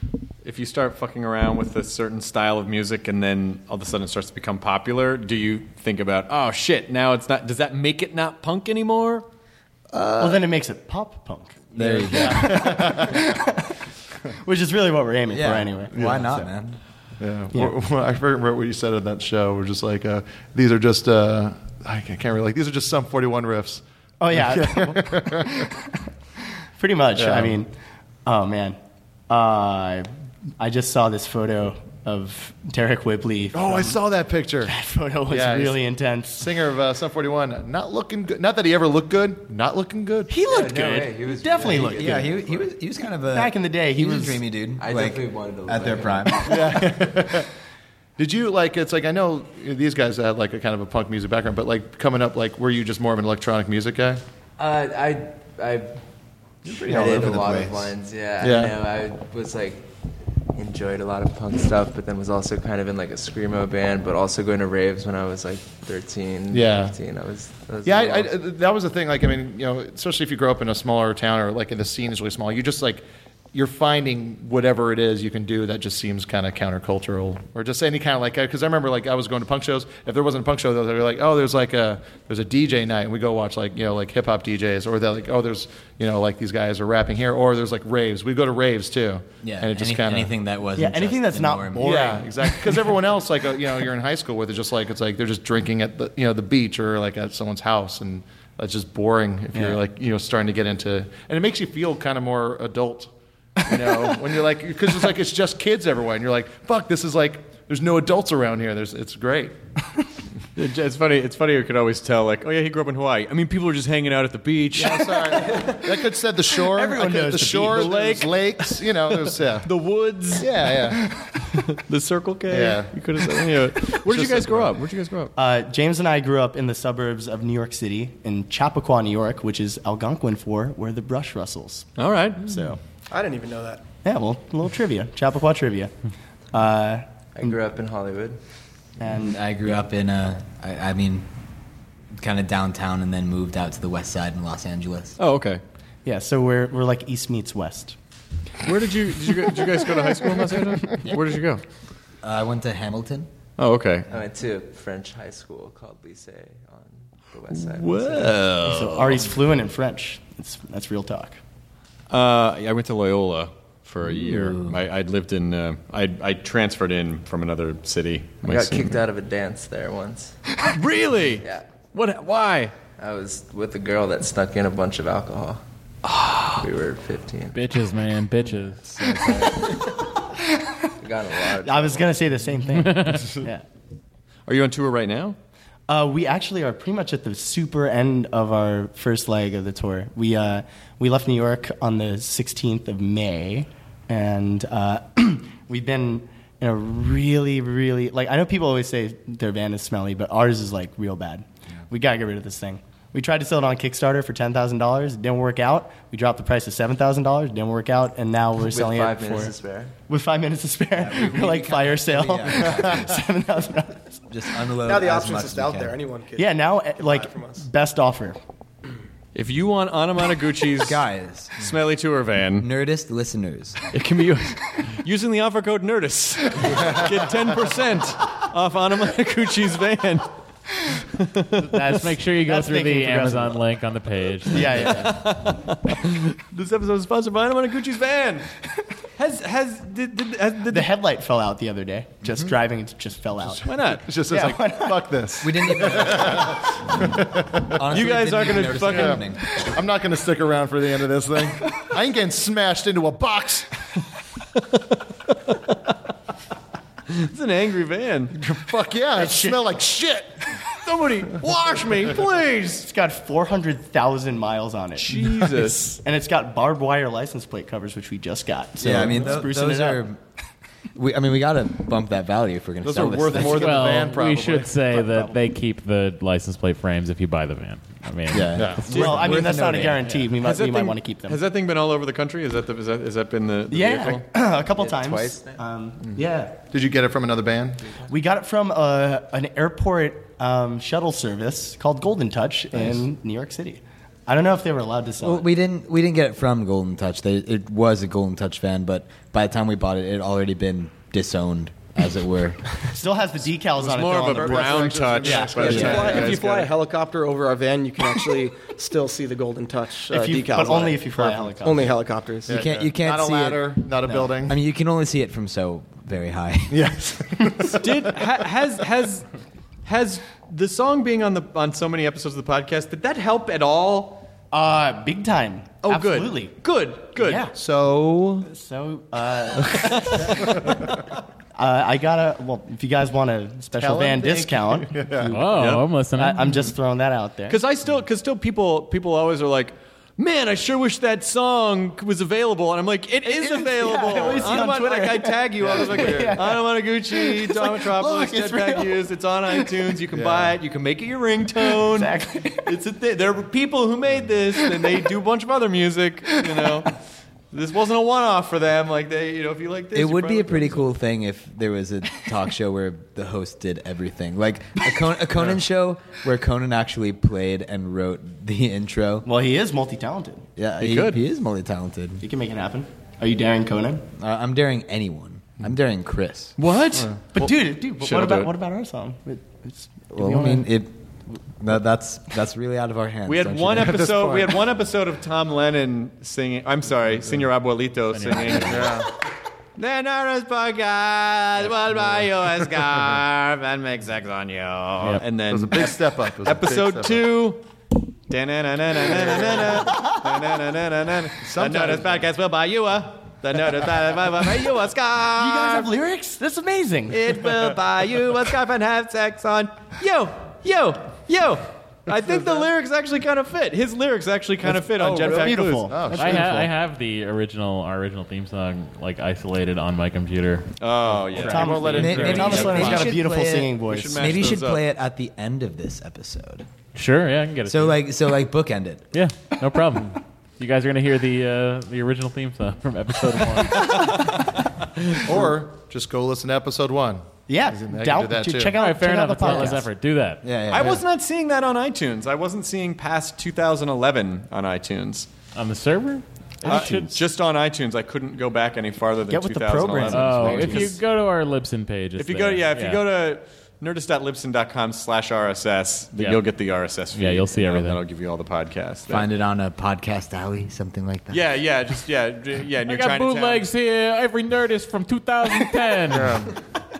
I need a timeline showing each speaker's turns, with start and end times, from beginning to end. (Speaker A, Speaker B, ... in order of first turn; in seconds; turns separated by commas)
Speaker A: 0.4-9.2, Speaker B: 9.9-10.4, Speaker C: 10.2-13.8, Speaker B: 11.7-12.8, Speaker D: 11.8-13.4, Speaker C: 14.4-16.5, Speaker B: 15.3-16.8, Speaker D: 15.9-16.3, Speaker D: 17.2-23.8, Speaker C: 24.2-26.0, Speaker D: 24.3-25.7, Speaker C: 26.8-27.7, Speaker D: 27.2-27.6, Speaker C: 28.2-28.8, Speaker C: 29.3-34.0, Speaker D: 33.5-34.7, Speaker C: 34.6-36.5, Speaker D: 35.3-35.8, Speaker D: 36.4-40.3, Speaker C: 40.3-42.3, Speaker E: 40.4-42.7, Speaker B: 41.4-47.0, Speaker C: 43.3-44.4, Speaker E: 44.8-46.5, Speaker D: 46.4-47.5, Speaker D: 48.2-54.2, Speaker E: 54.6-56.0, Speaker B: 56.6-57.9, Speaker E: 56.8-59.9, Speaker D: 56.9-57.3, Speaker D: 58.4-58.8, Speaker E: 60.5-68.3, Speaker D: 66.5-67.0, Speaker D: 67.8-90.3, Speaker B: 89.4-92.0, Speaker C: 90.8-92.7, Speaker D: 91.8-103.1, Speaker C: 99.5-99.8, Speaker C: 103.6-104.1, Speaker D: 103.6-109.5, Speaker A: 110.5-115.8, Speaker D: 114.8-119.7, Speaker C: 116.7-118.0, Speaker A: 117.7-120.5, Speaker D: 120.4-121.1, Speaker A: 121.7-125.3, Speaker D: 122.5-123.0, Speaker D: 124.0-124.8, Speaker C: 125.3-131.9, Speaker A: 132.0-132.5, Speaker C: 132.4-132.8, Speaker F: 133.1-133.8, Speaker C: 134.0-135.9, Speaker C: 136.5-137.5, Speaker E: 137.3-138.4, Speaker C: 139.0-139.3, Speaker B: 139.1-141.3, Speaker B: 142.1-145.2, Speaker A: 145.2-145.6, Speaker C: 146.0-147.9, Speaker A: 148.6-151.6, Speaker B: 151.0-151.4, Speaker B: 152.2-153.3, Speaker A: 153.6-154.1, Speaker E: 154.1-158.4, Speaker A: 157.5-159.3, Speaker C: 158.6-161.4, Speaker A: 162.1-169.0, Speaker B: 164.1-164.8, Speaker E: 168.4-170.4, Speaker A: 170.6-172.7, Speaker E: 173.0-175.6, Speaker E: 176.5-177.6, Speaker G: 177.5-179.6, Speaker E: 181.0-182.1, Speaker C: 181.6-183.6, Speaker G: 182.8-183.3, Speaker A: 184.5-185.4, Speaker C: 185.9-209.5, Speaker E: 208.6-209.9, Speaker C: 210.1-214.2, Speaker B: 210.9-213.2, Speaker B: 214.3-215.9, Speaker F: 214.8-217.6, Speaker C: 216.3-218.4, Speaker A: 219.3-221.0, Speaker B: 220.8-221.7, Speaker A: 221.6-222.7, Speaker B: 222.6-223.8, Speaker A: 223.9-230.3, Speaker A: 231.0-231.5, Speaker C: 231.6-233.6, Speaker G: 231.7-234.9, Speaker C: 234.5-235.2, Speaker A: 234.8-238.5, Speaker A: 239.2-240.9, Speaker C: 240.7-245.1, Speaker D: 243.5-247.7, Speaker A: 243.6-244.0, Speaker B: 245.4-246.7, Speaker B: 247.6-249.6, Speaker A: 247.9-249.2, Speaker D: 248.9-253.7, Speaker A: 257.1-258.4, Speaker D: 258.3-260.6, Speaker C: 259.2-259.6, Speaker A: 260.7-262.9, Speaker C: 262.8-270.0, Speaker A: 265.0-265.9, Speaker B: 268.8-270.2, Speaker B: 270.9-273.9, Speaker D: 272.8-275.3, Speaker G: 273.5-279.4, Speaker B: 278.3-280.0, Speaker D: 278.6-278.8, Speaker C: 278.9-281.4, Speaker A: 280.4-284.2, Speaker C: 283.7-286.6, Speaker E: 284.6-285.6, Speaker D: 286.7-287.9, Speaker C: 288.1-295.5, Speaker B: 295.2-302.6, Speaker C: 302.8-306.0, Speaker A: 303.8-306.7, Speaker D: 304.3-306.6, Speaker F: 305.6-312.6, Speaker B: 305.6-306.2, Speaker C: 310.1-311.9, Speaker D: 312.5-314.6, Speaker B: 312.5-313.9, Speaker C: 314.0-314.3, Speaker B: 314.4-316.9, Speaker D: 316.7-317.9, Speaker A: 317.7-319.3, Speaker A: 319.8-324.3, Speaker C: 324.5-326.6, Speaker A: 325.8-327.4, Speaker C: 327.1-327.5, Speaker D: 327.5-328.5, Speaker C: 328.4-330.8, Speaker A: 329.8-330.9, Speaker C: 331.5-337.6, Speaker D: 333.8-335.3, Speaker G: 335.3-336.6, Speaker A: 335.5-335.9, Speaker A: 337.5-357.0, Speaker C: 343.2-349.7, Speaker D: 345.6-346.4, Speaker D: 350.1-350.6, Speaker C: 351.7-352.7, Speaker A: 357.5-360.9, Speaker B: 359.9-369.3, Speaker C: 369.2-370.4, Speaker B: 370.6-372.2, Speaker A: 370.8-371.2, Speaker C: 372.2-374.0, Speaker B: 374.2-376.6, Speaker A: 376.6-378.5, Speaker C: 377.3-380.7, Speaker B: 380.1-380.9, Speaker B: 381.6-384.0, Speaker A: 383.2-389.1, Speaker D: 383.7-384.6, Speaker G: 388.1-388.9, Speaker D: 388.6-389.1, Speaker A: 389.8-397.6, Speaker D: 395.5-397.3, Speaker A: 398.3-405.9, Speaker D: 399.2-399.8, Speaker D: 401.4-402.3, Speaker C: 405.3-407.2, Speaker A: 407.1-415.9, Speaker D: 412.1-412.7, Speaker C: 414.6-416.7, Speaker D: 415.0-416.7, Speaker G: 416.1-422.8, Speaker A: 420.8-423.1, Speaker D: 421.5-423.2, Speaker C: 421.5-424.4, Speaker B: 421.9-426.7, Speaker A: 423.9-424.8, Speaker G: 426.9-428.0, Speaker B: 427.7-429.1, Speaker G: 429.1-434.4, Speaker D: 435.2-438.7, Speaker C: 437.5-439.9, Speaker G: 438.7-440.5, Speaker B: 440.4-441.0, Speaker A: 440.7-445.3, Speaker G: 445.5-447.2, Speaker A: 446.6-450.9, Speaker C: 449.3-450.9, Speaker G: 450.1-453.0, Speaker A: 452.2-459.2, Speaker G: 456.2-456.4, Speaker G: 457.1-458.0, Speaker B: 459.1-461.4, Speaker A: 461.3-463.7, Speaker G: 462.9-466.4, Speaker D: 466.1-466.5